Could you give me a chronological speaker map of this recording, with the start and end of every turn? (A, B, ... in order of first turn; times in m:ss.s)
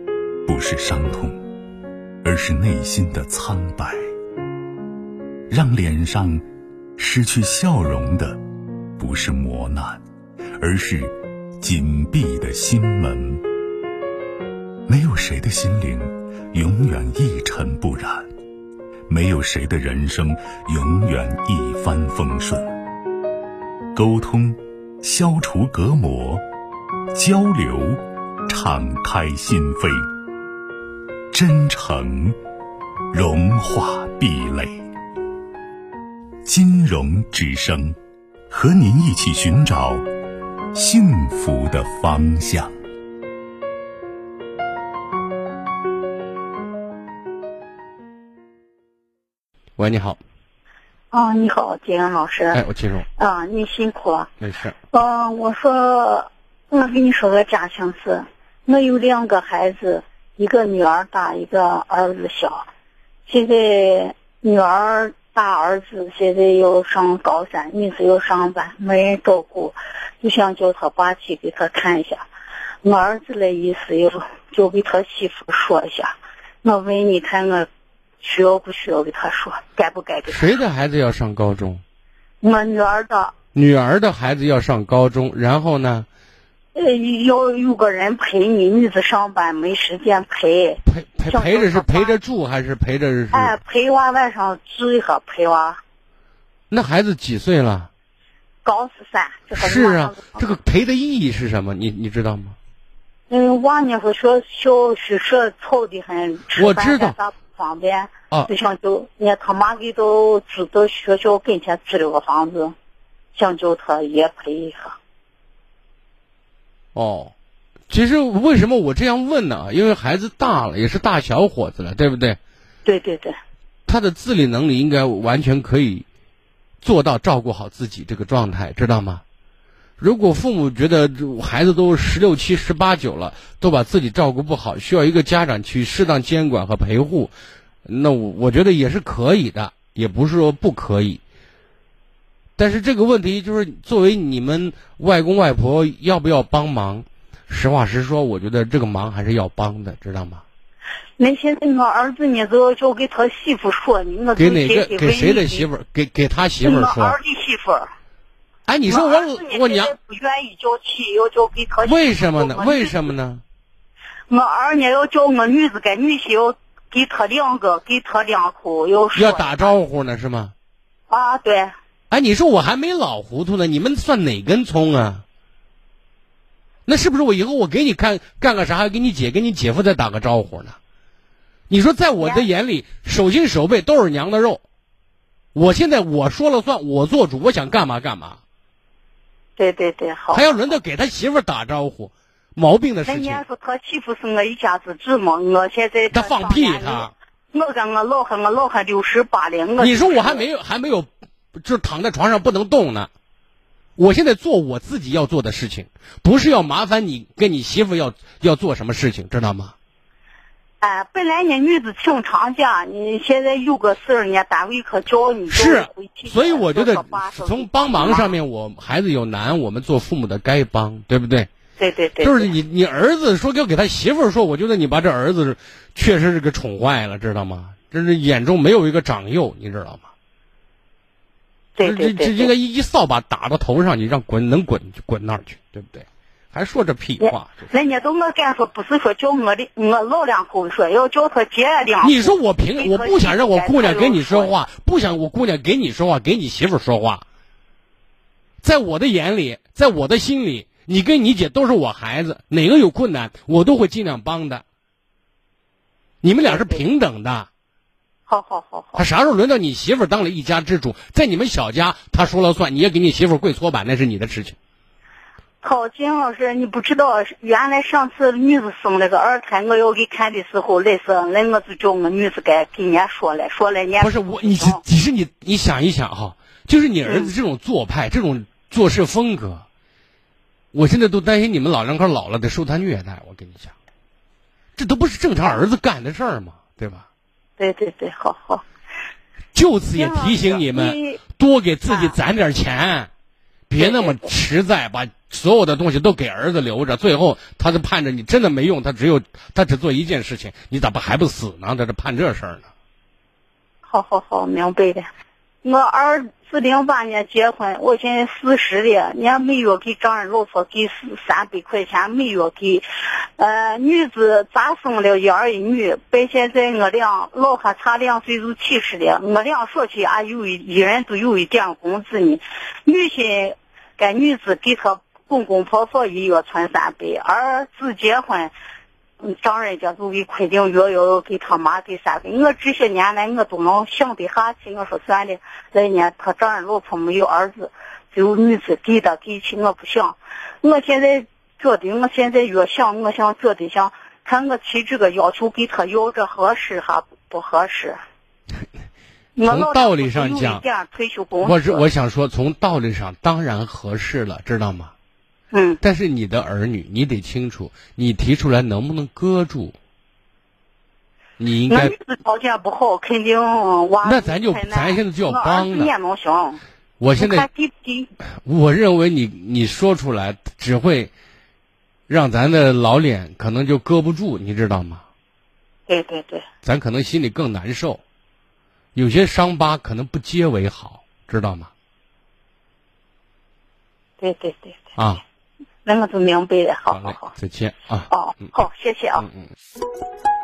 0:00.4-0:01.4 A
0:02.2-0:04.0 A
0:05.5-0:06.4 A
0:07.0-0:08.4 A
0:09.0-0:10.0 A
0:10.6-0:13.4 A
0:14.9-0:18.3 A
0:19.1-0:22.7 A
0:24.0-0:26.4 A
0:27.1-0:30.1 A
0:31.3-0:32.4 A
0:33.1-0:34.8 A
0:36.4-0:38.0 A
0:38.5-0:40.0 A
0:40.7-0:42.7 A
0:49.8-0:50.2 B
0:51.1-0:52.6 C
0:52.5-0:53.0 B
0:53.2-0:54.3 C
0:54.4-0:54.8 B
0:54.9-1:02.7 C
1:03.3-1:12.2 C
1:12.8-1:17.7 C
1:18.2-1:20.5 C
1:20.3-1:21.8 B
1:22.4-1:23.3 C
1:23.5-1:26.1 B
1:26.7-1:32.2 C
1:30.8-1:33.6 B
1:33.3-1:35.8 C
1:36.7-1:37.9 B
1:38.6-1:40.4 C
1:39.6-1:42.6 B
1:43.3-1:52.8 C
1:46.6-1:47.1 B
1:53.3-1:55.0 C
1:57.0-1:57.3 B
1:57.9-2:02.4 B
2:02.8-2:03.4 C
2:03.9-2:06.0 B
2:06.8-2:09.2 B
2:10.0-2:17.3 B
2:17.8-2:21.2 B
2:22.6-2:30.4 B
2:31.2-2:35.7 C
2:34.4-2:37.2 B
2:36.6-2:37.9 C
2:38.7-2:39.9 B
2:38.9-2:43.0 C
2:41.8-2:43.4 B
2:44.3-2:49.8 C
2:49.2-2:50.5 B
2:51.1-2:51.7 C
2:52.1-2:55.2 B
2:56.9-3:00.8 B
3:01.7-3:04.6 B
3:02.2-3:02.5 C
3:05.6-3:08.4 B
3:09.6-3:10.8 C
3:10.3-3:13.4 B
3:13.1-3:20.5 C
3:16.1-3:17.1 B
3:19.8-3:23.1 B
3:24.0-3:29.7 B
3:30.8-3:38.3 C
3:35.5-3:41.5 B
3:41.8-3:42.5 C
3:42.2-3:50.1 B
3:51.8-3:52.5 C
3:51.8-3:57.7 B
3:57.2-4:04.6 C
4:02.0-4:07.2 B
4:08.6-4:14.6 B
4:16.2-4:17.5 B
4:16.4-4:16.8 C
4:18.3-4:19.0 C
4:19.0-4:24.6 B
4:25.6-4:34.8 C
4:34.0-4:39.6 B
4:37.0-4:37.3 C
4:40.7-4:43.7 B
4:44.8-4:47.0 B
4:47.6-4:48.6 C
4:49.5-4:53.1 B
4:49.9-4:51.2 C
4:51.9-4:52.2 C
4:53.7-5:02.7 B
4:53.8-4:54.3 C
5:03.9-5:05.1 C
5:05.6-5:12.8 C
5:13.4-5:28.5 C
5:29.2-5:48.0 C
5:49.4-5:51.8 C
5:49.4-5:50.6 B
5:51.4-5:54.9 B
5:55.5-5:55.8 C
5:55.8-5:59.8 B
6:01.4-6:01.9 B
6:01.7-6:06.6 C
6:04.0-6:05.9 B
6:07.0-6:07.5 B
6:07.2-6:08.1 C
6:08.4-6:11.1 B
6:12.1-6:15.0 B
6:15.9-6:16.4 C
6:16.6-6:18.0 B
6:18.9-6:21.7 B
6:24.2-6:24.8 C
6:25.0-6:25.2 B
6:25.8-6:27.4 C
6:26.9-6:28.1 B
6:28.1-6:29.2 C
6:29.2-6:29.5 B